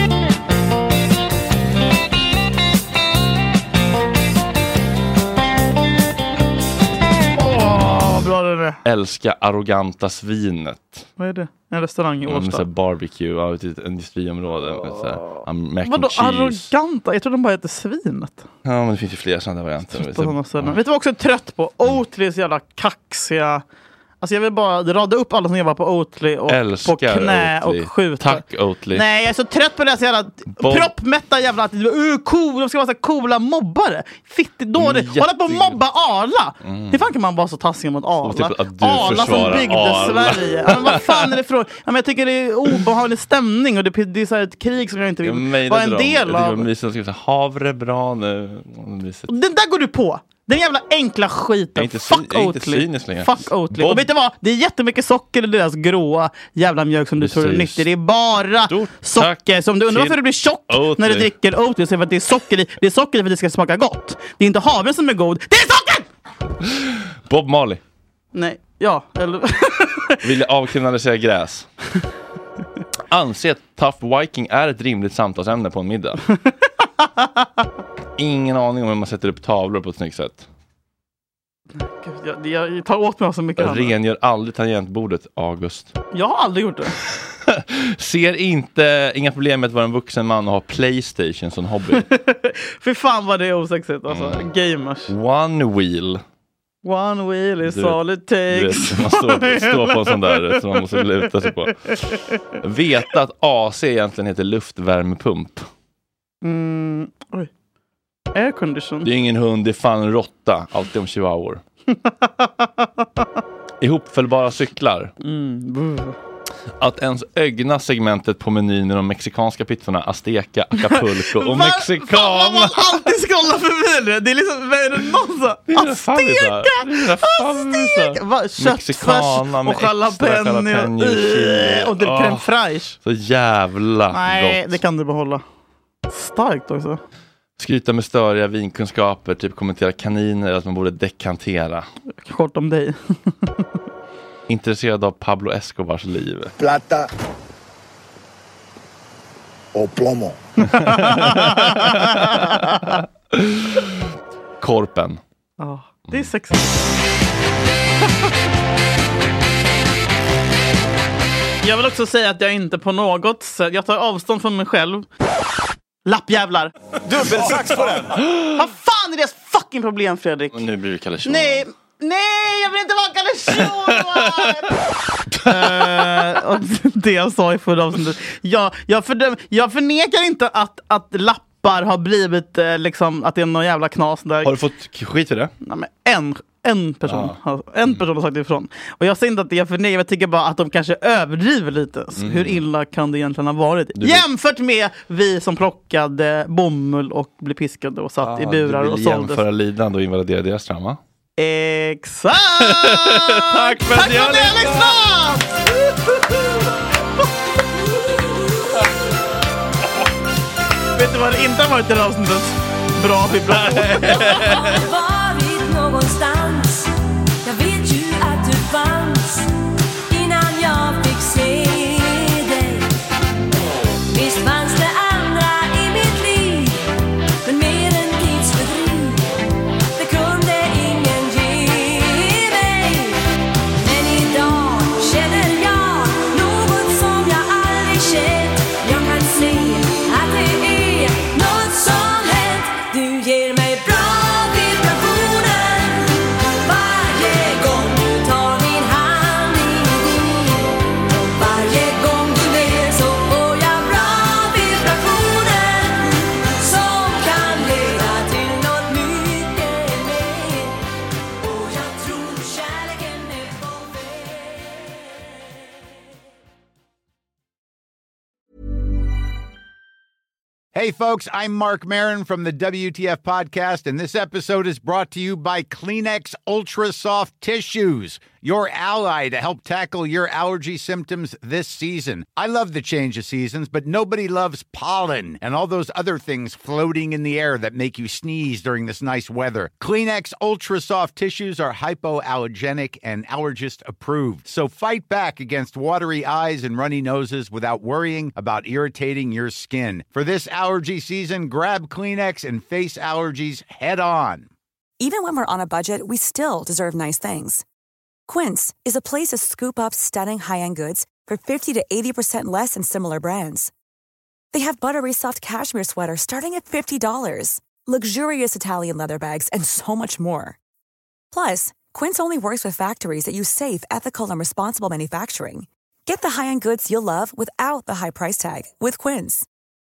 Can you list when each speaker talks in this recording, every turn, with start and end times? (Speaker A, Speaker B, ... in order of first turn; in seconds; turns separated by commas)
Speaker A: 7.4-8.8, Speaker B: 8.8-11.1, Speaker A: 11.2-12.6, Speaker B: 12.2-16.7, Speaker A: 15.3-18.5, Speaker B: 18.6-20.8, Speaker A: 19.9-23.6, Speaker A: 24.2-46.7, Speaker B: 26.5-29.0, Speaker B: 30.6-30.9, Speaker B: 34.8-35.8, Speaker B: 36.6-37.0, Speaker B: 38.2-41.3, Speaker B: 45.2-49.3, Speaker A: 49.3-66.1, Speaker B: 51.8-54.1, Speaker B: 57.2-57.9, Speaker B: 58.7-61.3, Speaker B: 67.3-67.8, Speaker A: 68.3-70.2, Speaker B: 70.2-71.7, Speaker B: 73.1-76.2, Speaker A: 77.0-77.3, Speaker B: 78.2-80.5, Speaker A: 81.8-83.9, Speaker B: 83.6-85.9, Speaker A: 86.1-86.9, Speaker B: 87.5-92.1, Speaker A: 92.0-95.1, Speaker B: 94.1-94.5, Speaker B: 95.1-96.2, Speaker A: 96.8-100.8, Speaker B: 97.6-102.0, Speaker B: 102.6-105.7, Speaker A: 106.4-107.5, Speaker A: 108.3-109.1, Speaker B: 109.0-111.6, Speaker A: 111.9-113.0, Speaker B: 113.8-115.1, Speaker A: 115.2-116.2, Speaker B: 116.8-123.1, Speaker A: 120.8-133.0, Speaker B: 125.7-132.4, Speaker B: 133.0-134.8, Speaker A: 134.1-135.4, Speaker A: 136.1-137.0, Speaker B: 137.6-141.9, Speaker A: 142.2-143.3, Speaker B: 144.5-146.5, Speaker A: 150.7-152.9, Speaker B: 150.9-152.4, Speaker B: 153.3-153.9, Speaker B: 154.6-155.2, Speaker A: 155.6-156.8, Speaker A: 161.6-165.1, Speaker A: 166.1-170.6, Speaker B: 167.1-168.6, Speaker B: 170.5-171.6, Speaker A: 171.2-174.7, Speaker B: 175.3-176.3, Speaker A: 175.4-184.5, Speaker B: 184.4-185.5, Speaker A: 185.6-199.4, Speaker B: 187.1-187.3, Speaker B: 192.2-192.6, Speaker B: 194.0-194.2, Speaker B: 198.2-201.0, Speaker A: 201.4-206.6, Speaker B: 202.6-205.0, Speaker A: 210.9-214.6, Speaker B: 213.5-214.8, Speaker C: 214.6-216.9, Speaker C: 217.4-219.5, Speaker C: 220.1-222.9, Speaker C: 224.1-226.8, Speaker C: 227.4-229.3, Speaker C: 229.9-233.2, Speaker C: 233.8-260.8, Speaker C: 261.4-265.0, Speaker D: 270.7-304.5, Speaker E: 305.0-307.6, Speaker E: 308.3-313.7, Speaker E: 314.5-320.6, Speaker E: 321.3-329.4